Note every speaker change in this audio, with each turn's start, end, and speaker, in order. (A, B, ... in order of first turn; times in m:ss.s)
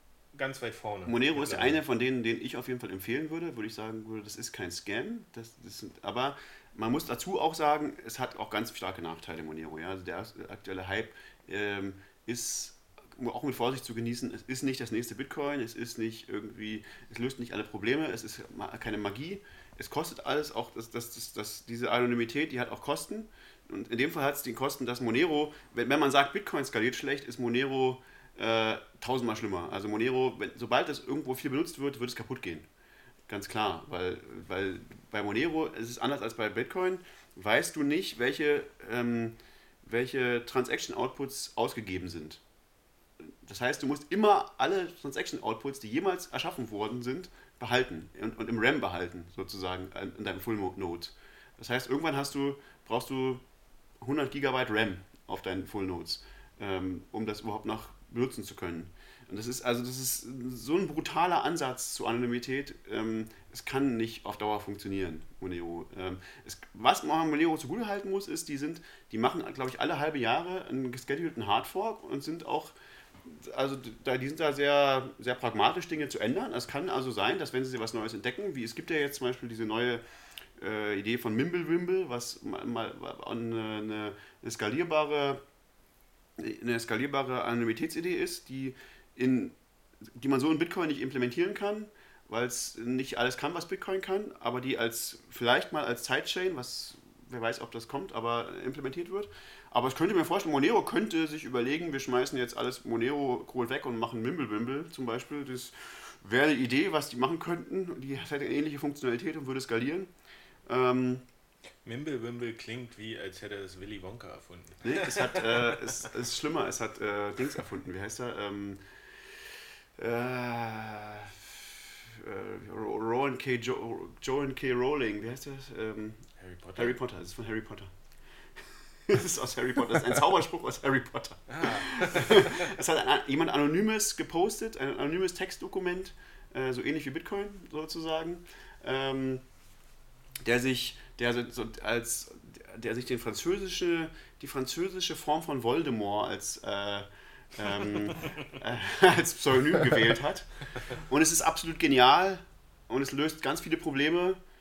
0:00.3-0:01.8 A
0:01.1-0:32.7 B
0:33.3-0:42.4 B
0:43.2-0:53.4 B
0:54.0-1:20.0 B
1:20.6-1:25.4 B
1:26.4-1:29.5 B
1:30.2-1:50.1 B
1:50.7-1:51.2 B
1:51.8-1:55.8 A
1:54.8-1:59.3 B
2:00.0-2:06.2 B
2:06.4-2:07.0 A
2:06.8-2:07.9 B
2:09.1-2:19.4 B
2:11.5-2:12.7 A
2:20.4-2:34.4 B